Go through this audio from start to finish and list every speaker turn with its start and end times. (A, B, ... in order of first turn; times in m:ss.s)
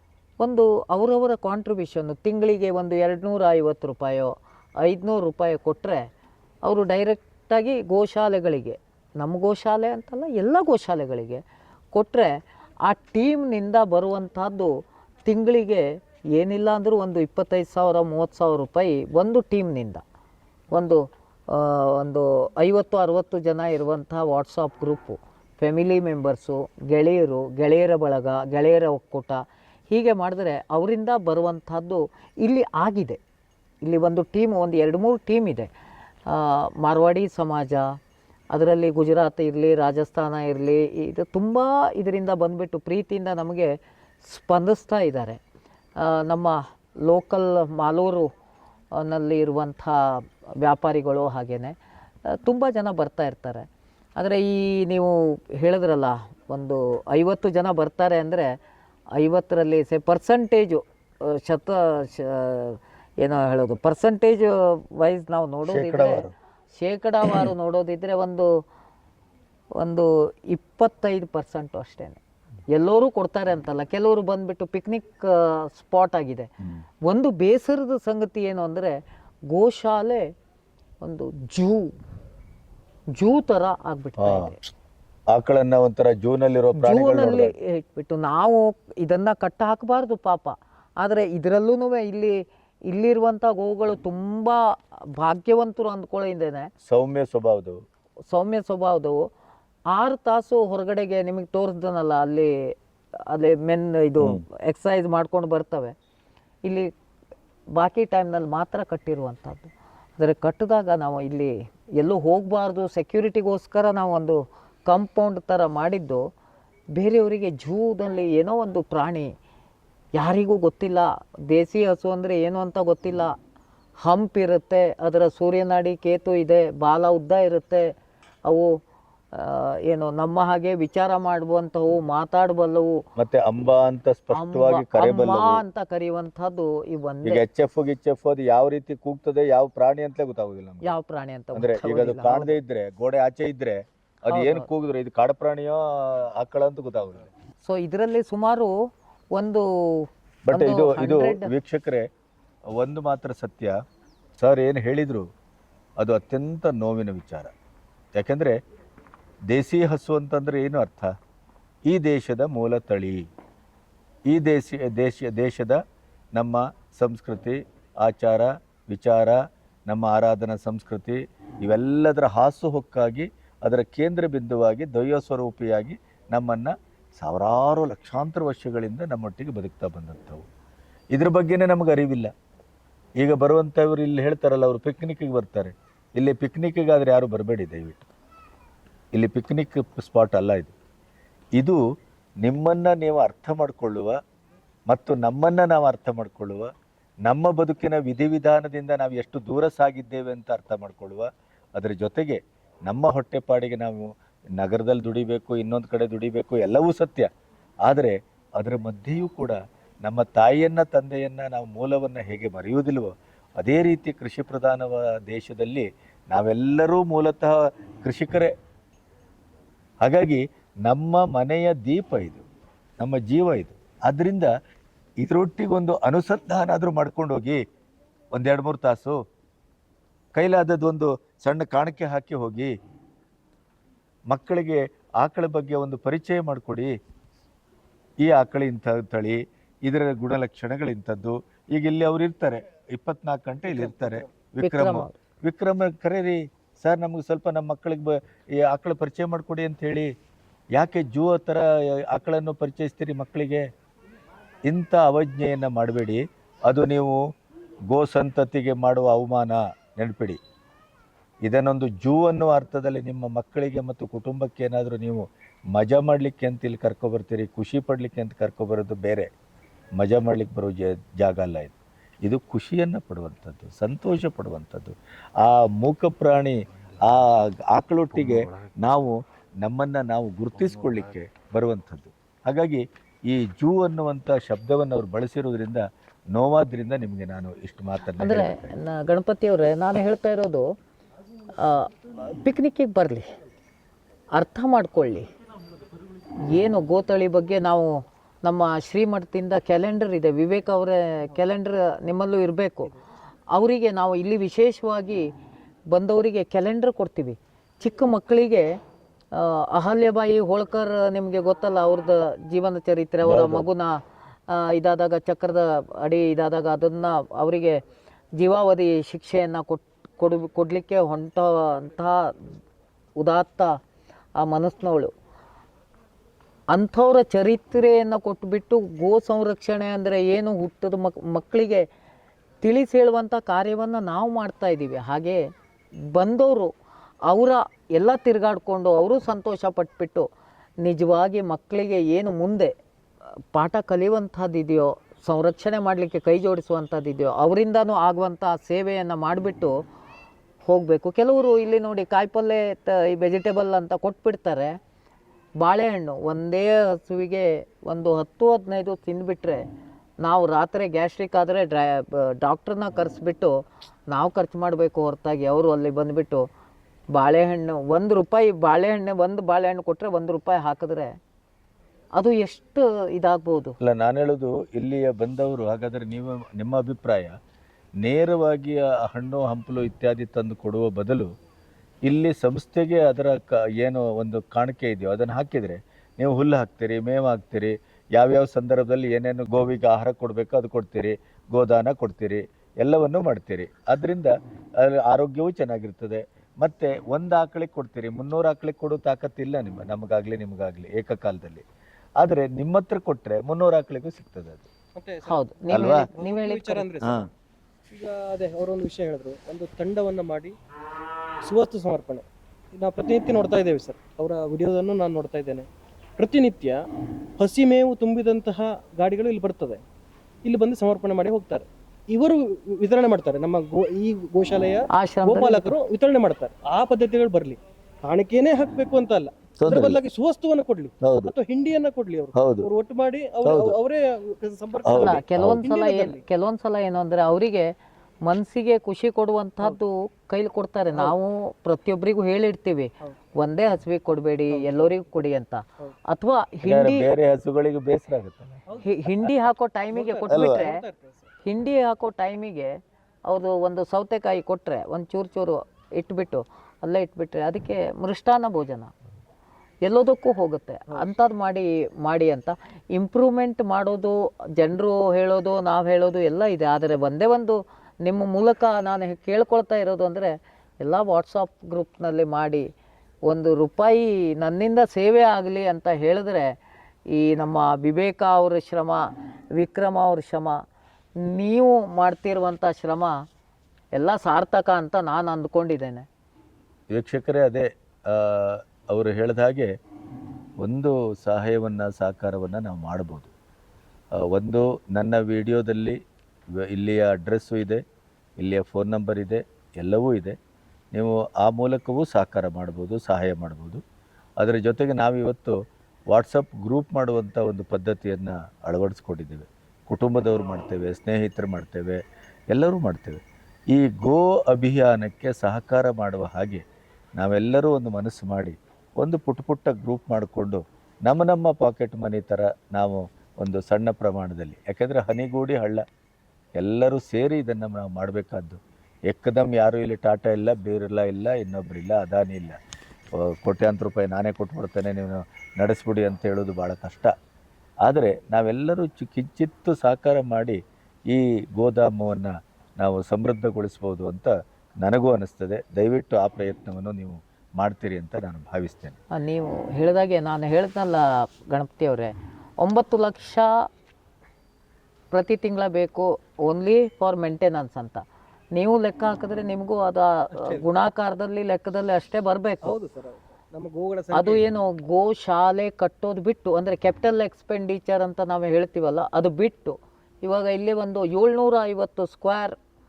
0:00.4-0:06.1 A
0:06.6-0:11.4 A
0:11.9-0:12.3 A
0:12.8-0:14.7 A
0:15.3-0:20.0 A
0:20.7-0:33.2 A
0:33.8-0:35.7 A
0:36.3-0:38.0 A
0:38.5-0:43.7 A
0:44.2-0:45.4 A
0:46.0-0:48.3 A
0:49.0-0:58.6 A
0:59.2-1:08.5 A
1:05.7-1:06.3 B
1:09.8-1:12.2 A
1:12.7-1:16.5 A
1:17.0-1:19.0 A
1:19.5-1:20.3 A
1:21.0-1:21.9 A
1:23.2-1:24.6 A
1:24.2-1:24.5 B
1:25.3-1:27.5 B
1:26.8-1:36.7 A
1:36.8-1:37.8 B
1:38.3-1:39.3 A
1:39.9-1:42.7 A
1:43.2-1:46.0 A
1:46.6-1:46.9 A
1:47.7-1:56.3 A
1:56.9-1:59.3 A
2:00.1-2:03.3 A
2:04.0-2:07.9 A
2:08.5-2:08.8 A
2:09.3-2:13.0 A
2:13.2-2:15.6 B
2:14.3-2:17.4 A
2:17.2-2:20.9 B
2:20.8-2:22.6 A
2:21.5-2:27.3 B
2:24.3-2:24.6 A
2:27.6-2:28.7 A
2:29.3-2:31.5 A
2:30.5-2:32.1 B
2:32.7-2:33.8 B
2:34.4-2:35.3 B
2:36.0-2:37.5 B
2:38.2-2:38.6 B
2:39.5-2:41.1 B
2:41.9-2:43.3 B
2:44.3-2:45.8 B
2:46.4-3:00.4 B
3:01.1-3:02.3 B
3:03.2-3:08.1 B
3:09.1-3:10.7 B
3:12.4-3:14.2 B
3:14.9-3:16.7 B
3:17.2-3:27.3 B
3:27.8-3:38.5 B
3:40.0-3:42.4 B
3:43.0-3:44.5 B
3:45.2-3:47.6 B
3:48.3-3:49.2 B
3:50.4-3:52.7 B
3:54.3-3:56.9 B
3:58.2-4:10.1 B
4:03.7-4:04.1 C
4:04.6-4:05.1 A
4:10.7-4:13.6 B
4:14.6-4:17.2 B
4:17.9-4:20.4 B
4:21.4-4:29.3 B
4:30.0-4:48.7 B
4:48.2-4:50.7 A
4:51.6-4:53.3 A
4:54.4-4:55.3 A
4:56.4-4:57.9 A
4:58.4-5:02.9 A
5:03.5-5:05.3 A
5:05.9-5:08.7 A
5:09.3-5:17.8 A
5:13.2-5:13.7 B
5:18.4-5:22.3 A
5:23.2-5:23.8 A
5:24.4-5:25.1 A
5:26.7-5:31.8 A
5:32.6-5:35.4 A
5:36.1-5:36.7 A
5:37.3-5:40.3 A
5:40.8-5:42.7 A
5:43.5-5:49.8 A
5:50.6-5:54.8 A
5:55.6-5:59.6 A
6:00.2-6:03.6 A
6:04.1-6:06.4 A
6:07.1-6:11.2 A
6:12.2-6:13.8 A
6:13.8-6:17.4 B
6:18.0-6:21.3 B
6:22.0-6:41.6 B
6:42.2-6:44.6 B
6:45.0-6:47.2 C
6:45.3-6:46.8 A
6:45.7-6:46.0 B
6:47.0-6:47.3 B
6:47.9-6:50.5 C
6:51.4-6:55.7 C
6:56.2-6:56.8 C
6:57.4-6:59.8 C
7:00.4-7:16.2 C
7:04.9-7:05.7 A
7:09.6-7:10.0 B
7:11.0-7:11.3 B
7:12.4-7:12.7 B
7:13.4-7:13.7 B
7:14.8-7:15.6 B
7:14.9-7:17.7 A
7:18.2-7:27.0 A
7:24.5-7:25.0 C
7:26.6-7:28.5 B
7:28.7-7:31.3 C
7:28.8-7:30.8 A
7:30.3-7:30.6 B
7:31.4-7:38.9 A
7:39.8-7:52.7 A
7:53.3-7:56.5 A
7:57.1-7:59.0 A
7:59.6-8:00.6 A
8:01.2-8:03.2 A
8:03.9-8:06.0 A
8:06.9-8:09.7 B
8:10.6-8:13.3 B
8:14.2-8:16.0 B
8:16.5-8:17.8 B
8:18.4-8:20.4 B
8:20.9-8:23.8 B
8:24.4-8:25.6 B
8:26.1-8:32.0 B
8:32.5-8:33.2 B
8:33.7-8:36.6 B
8:37.2-8:45.8 B
8:46.6-8:52.6 B
8:53.2-8:57.1 B
8:57.8-9:09.0 B
9:09.1-9:13.5 A
9:15.1-9:18.0 A
9:18.5-9:22.7 A
9:20.3-9:20.6 C
9:22.6-9:24.4 C
9:24.1-9:32.6 A